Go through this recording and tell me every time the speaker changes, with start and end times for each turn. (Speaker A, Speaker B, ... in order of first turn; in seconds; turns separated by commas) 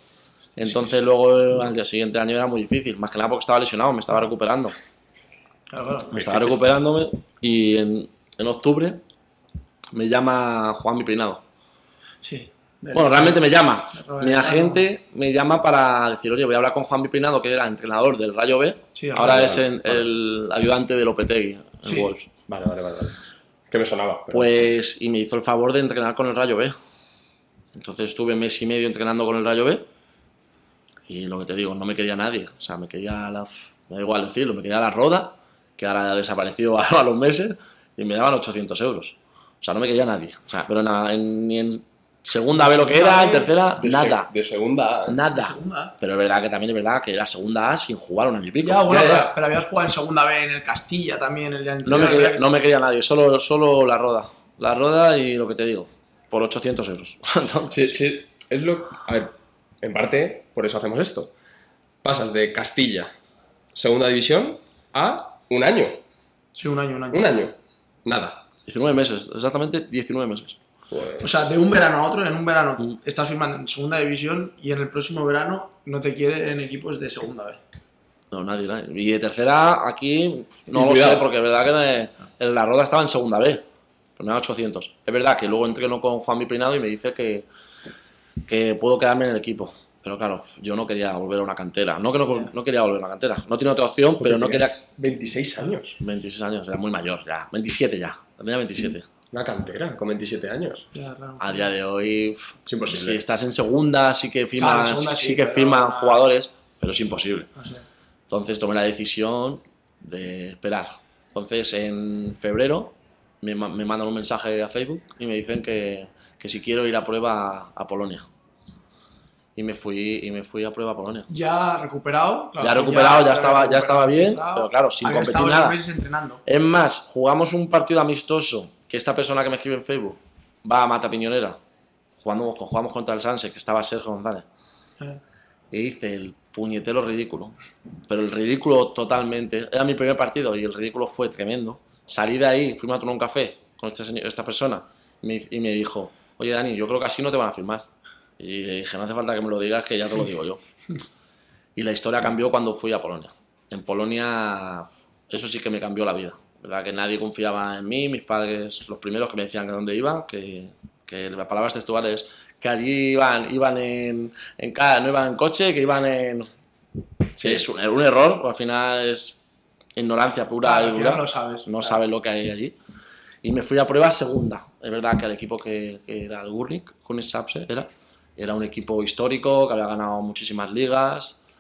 Speaker A: 0.6-1.0, Speaker B: 0.6-4.8, Speaker A: 5.7-6.1, Speaker B: 6.1-9.0, Speaker C: 6.2-6.6, Speaker B: 9.9-11.4, Speaker A: 12.2-14.9, Speaker B: 12.9-22.3, Speaker A: 18.9-19.6, Speaker C: 19.1-20.1, Speaker A: 21.9-22.1, Speaker C: 22.5-24.7, Speaker B: 24.3-26.8, Speaker B: 27.8-29.9, Speaker B: 31.1-44.3, Speaker A: 42.5-43.5, Speaker C: 43.8-45.2, Speaker B: 45.1-49.3, Speaker A: 45.3-46.0, Speaker A: 48.6-52.4, Speaker B: 51.8-58.0, Speaker C: 57.7-61.3, Speaker C: 62.0-63.1, Speaker C: 63.8-66.0, Speaker A: 66.5-67.3, Speaker C: 67.1-68.4, Speaker B: 68.7-70.6, Speaker C: 70.9-71.3, Speaker A: 71.2-77.6, Speaker B: 78.3-83.7, Speaker C: 80.7-81.3, Speaker B: 84.2-87.5, Speaker B: 88.5-94.8, Speaker C: 94.2-96.0, Speaker B: 96.0-99.1, Speaker C: 99.3-100.9, Speaker A: 100.9-101.7, Speaker B: 101.4-107.5, Speaker C: 102.7-103.2, Speaker A: 104.6-106.2, Speaker A: 107.6-107.8, Speaker B: 108.3-118.3, Speaker B: 119.6-121.3, Speaker A: 121.3-126.4, Speaker B: 122.6-125.8, Speaker B: 126.5-131.6, Speaker B: 132.2-134.4, Speaker B: 135.7-137.6, Speaker B: 138.1-147.9, Speaker B: 148.4-150.7, Speaker B: 151.8-166.5, Speaker B: 167.4-169.4, Speaker C: 167.4-167.6, Speaker B: 170.0-172.8, Speaker A: 170.6-172.0, Speaker B: 173.4-181.4